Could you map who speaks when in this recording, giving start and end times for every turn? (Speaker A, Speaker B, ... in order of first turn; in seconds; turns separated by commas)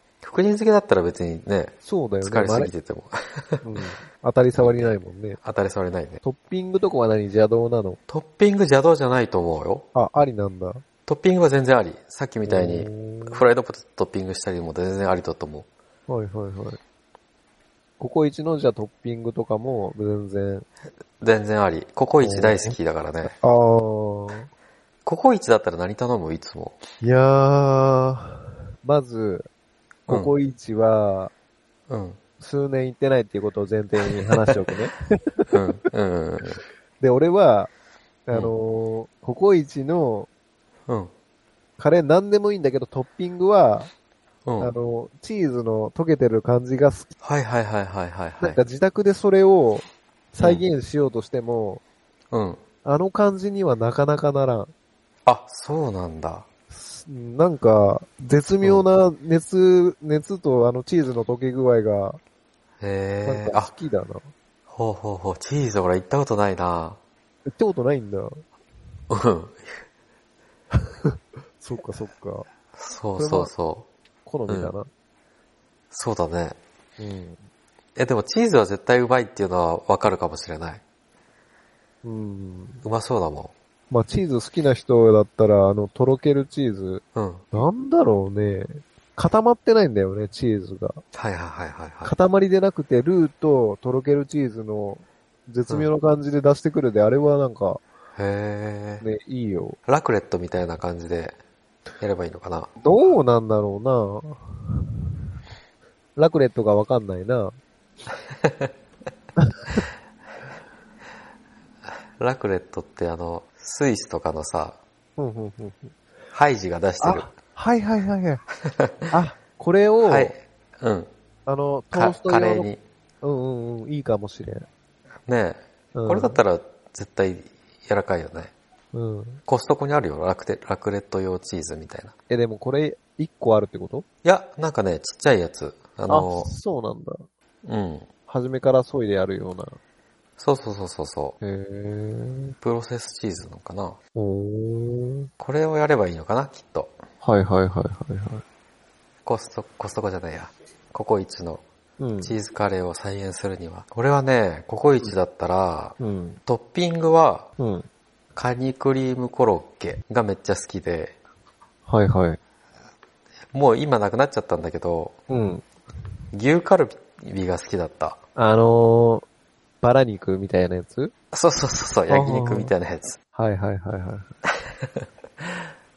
Speaker A: 0.2-3.6, Speaker B: 1.8-2.7, Speaker B: 3.6-5.4, Speaker A: 4.6-6.2, Speaker B: 6.2-8.0, Speaker A: 8.1-9.8, Speaker B: 9.9-10.8, Speaker A: 11.1-15.7, Speaker B: 12.4-13.4, Speaker B: 16.1-16.8, Speaker B: 18.0-20.6, Speaker A: 21.2-23.3, Speaker B: 22.2-24.5, Speaker A: 25.0-26.8, Speaker B: 27.0-29.5, Speaker A: 30.1-30.3, Speaker B: 30.1-31.3, Speaker A: 31.9-32.2, Speaker B: 32.4-35.6, Speaker A: 34.2-34.6, Speaker A: 35.5-36.6, Speaker B: 37.0-37.7, Speaker B: 38.3-40.3, Speaker B: 41.8-43.9, Speaker A: 44.5-44.7, Speaker B: 44.6-47.1, Speaker A: 47.2-48.6, Speaker B: 48.4-51.8, Speaker A: 50.4-50.6, Speaker A: 52.3-52.6, Speaker B: 52.8-54.7, Speaker A: 55.2-56.5, Speaker B: 56.7-62.2, Speaker A: 62.8-63.7, Speaker B: 63.2-64.3, Speaker A: 64.7-67.0, Speaker B: 67.5-68.4, Speaker A: 69.1-69.8, Speaker B: 70.7-72.5, Speaker A: 72.7-73.9, Speaker B: 73.2-73.5, Speaker B: 74.2-74.9, Speaker A: 75.9-76.6, Speaker B: 77.0-77.4, Speaker A: 78.0-80.8, Speaker B: 82.0-82.8, Speaker A: 82.8-83.5, Speaker B: 83.9-91.0, Speaker A: 87.1-87.4, Speaker A: 91.1-92.1, Speaker B: 92.0-97.8, Speaker A: 98.2-99.0, Speaker B: 99.0-99.8, Speaker A: 99.9-101.3, Speaker A: 102.0-102.7, Speaker B: 102.8-105.0, Speaker B: 106.2-107.5, Speaker A: 108.4-108.7, Speaker B: 109.4-109.8, Speaker A: 112.2-114.8, Speaker B: 115.2-116.0, Speaker A: 116.3-117.3, Speaker B: 117.0-118.4, Speaker A: 118.6-119.1, Speaker B: 119.1-120.3, Speaker A: 120.0-121.1, Speaker B: 121.5-122.7, Speaker A: 121.9-122.8, Speaker B: 123.2-124.7, Speaker A: 125.3-128.5, Speaker B: 125.9-126.4, Speaker B: 128.9-129.4, Speaker A: 129.5-132.1, Speaker B: 132.3-134.1, Speaker A: 134.2-136.5, Speaker B: 136.1-137.3, Speaker A: 137.6-138.1, Speaker B: 138.3-139.8, Speaker A: 140.4-141.4, Speaker B: 141.4-142.5, Speaker A: 142.6-144.0, Speaker B: 144.1-145.3, Speaker A: 145.4-146.9, Speaker B: 147.2-148.4, Speaker A: 149.2-151.6, Speaker B: 152.0-152.3, Speaker A: 152.2-157.5, Speaker B: 156.0-156.4, Speaker B: 157.6-157.9, Speaker A: 158.3-161.1, Speaker B: 161.9-162.4, Speaker A: 163.5-165.1, Speaker B: 165.3-165.7, Speaker A: 166.3-168.2, Speaker B: 168.3-169.2, Speaker B: 169.8-171.1, Speaker A: 171.3-173.2, Speaker B: 172.1-172.7, Speaker B: 173.3-174.3, Speaker A: 174.6-175.7